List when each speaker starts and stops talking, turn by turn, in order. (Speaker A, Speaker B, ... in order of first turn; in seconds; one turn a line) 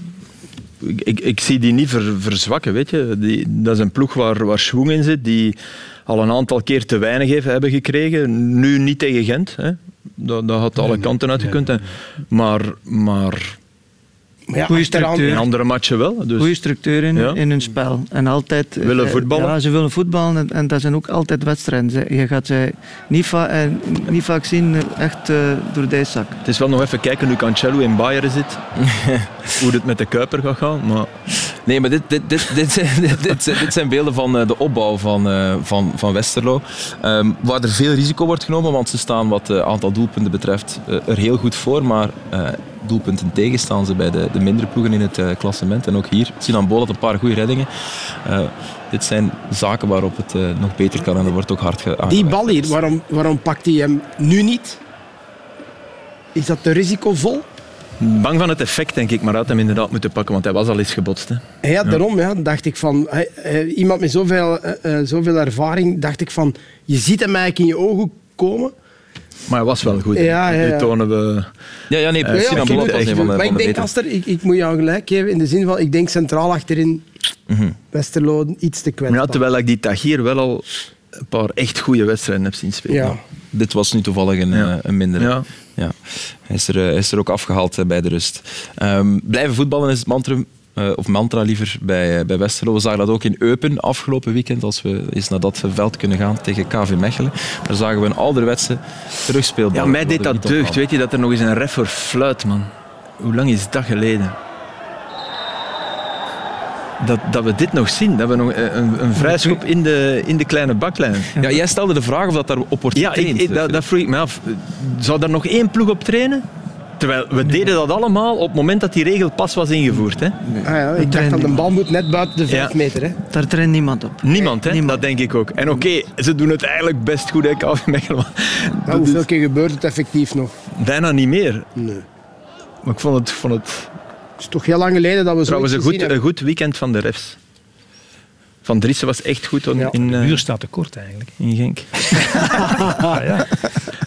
Speaker A: 0.8-13.6
Speaker B: 10.8-11.8
Speaker C: 14.5-15.4
Speaker D: 14.7-15.5
Speaker A: 15.2-16.5
Speaker D: 16.4-26.4
Speaker A: 17.1-17.4
Speaker A: 18.8-19.6
Speaker A: 26.4-28.6
Speaker E: 28.8-29.3
Speaker A: 29.5-31.3
Speaker E: 31.6-52.7
Speaker C: 52.1-54.8
Speaker C: 56.3-57.5
Speaker A: 58.0-62.0
Speaker C: 61.6-68.7
Speaker A: 69.5-71.5
Speaker C: 70.1-70.9
Speaker E: 71.9-73.9
Speaker A: 72.2-73.4
Speaker C: 72.3-77.1
Speaker E: 77.5-77.8
Speaker C: 77.9-79.4
Speaker A: 79.1-80.6
Speaker A: 81.2-83.1
Speaker C: 82.9-83.2
Speaker E: 83.5-100.8
Speaker A: 84.5-85.5
Speaker A: 99.7-104.3
Speaker A: 107.0-111.3
Speaker D: 109.2-109.6
Speaker E: 111.4-113.8
Speaker A: 112.9-116.4
Speaker A: 117.0-120.4
Speaker D: 120.5-121.7
Speaker C: 120.6-123.2
Speaker A: 122.5-122.7
Speaker D: 123.3-125.0
Speaker A: 124.2-129.2
Speaker C: 128.8-130.5
Speaker A: 130.8-131.7
Speaker C: 131.8-132.0
Speaker A: 132.8-133.9
Speaker C: 134.4-136.1
Speaker A: 135.5-137.4
Speaker A: 138.6-140.4
Speaker B: 139.9-141.3
Speaker A: 141.4-142.5
Speaker B: 142.1-143.7
Speaker C: 142.6-143.1